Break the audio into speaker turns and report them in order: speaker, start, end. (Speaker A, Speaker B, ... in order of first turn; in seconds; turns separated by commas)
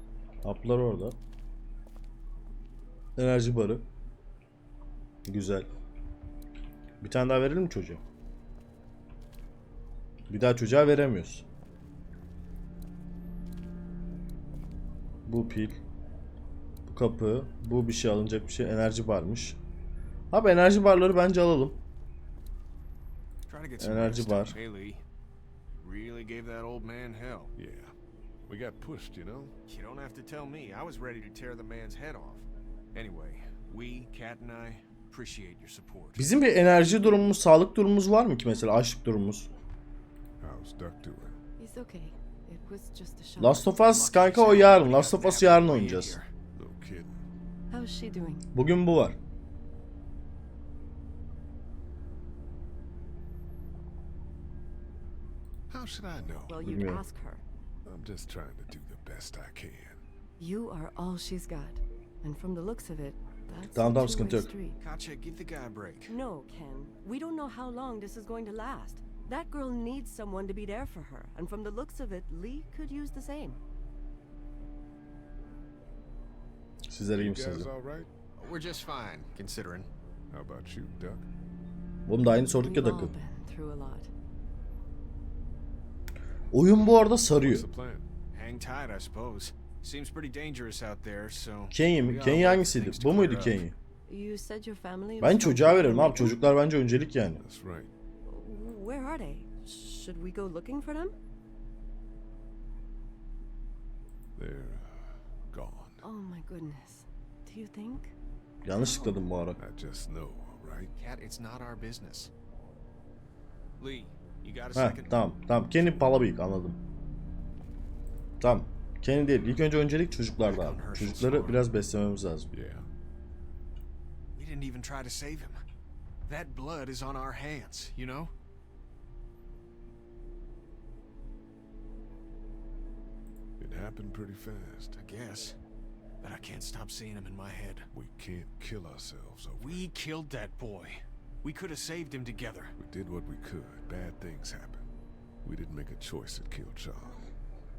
Speaker A: 0.4-1.2, Speaker A: 3.2-3.8, Speaker A: 5.2-5.7, Speaker A: 7.0-8.0, Speaker A: 10.3-11.4, Speaker A: 15.3-15.8, Speaker A: 16.9-19.6, Speaker A: 20.3-21.8, Speaker B: 23.5-25.0, Speaker A: 23.8-24.6, Speaker B: 25.7-27.5, Speaker C: 27.6-27.9, Speaker C: 28.4-29.6, Speaker B: 29.7-36.3, Speaker A: 36.2-39.5, Speaker C: 40.4-41.4, Speaker D: 41.6-43.8, Speaker A: 43.4-46.2, Speaker B: 43.8-46.3, Speaker C: 46.5-47.2, Speaker D: 47.7-48.5, Speaker A: 48.5-49.2, Speaker C: 55.7-56.6, Speaker D: 56.5-57.4, Speaker A: 56.6-57.0, Speaker C: 57.8-60.0, Speaker D: 60.4-64.8, Speaker A: 63.7-64.5, Speaker B: 64.8-66.1, Speaker D: 66.1-73.6, Speaker A: 76.9-77.7, Speaker C: 77.1-78.1, Speaker B: 78.4-79.9, Speaker C: 80.3-81.3, Speaker A: 82.0-83.1, Speaker D: 82.4-84.1, Speaker A: 86.5-87.7, Speaker C: 87.3-88.1, Speaker B: 88.3-93.6, Speaker A: 91.7-93.7, Speaker D: 94.1-96.5, Speaker A: 95.2-97.4, Speaker C: 97.4-97.9, Speaker D: 98.2-101.1, Speaker C: 104.4-106.0, Speaker D: 106.0-108.1, Speaker A: 108.6-109.6, Speaker D: 108.8-109.2, Speaker C: 109.6-110.9, Speaker B: 111.0-112.3, Speaker B: 113.8-116.1, Speaker A: 114.7-116.8, Speaker A: 118.4-122.5, Speaker B: 120.2-121.7, Speaker C: 122.5-122.9, Speaker B: 124.3-125.6, Speaker B: 126.3-128.3, Speaker C: 133.6-135.0, Speaker B: 135.0-135.6, Speaker B: 136.2-137.9, Speaker C: 137.9-139.9, Speaker B: 139.6-142.7, Speaker C: 142.8-144.9, Speaker C: 145.4-147.3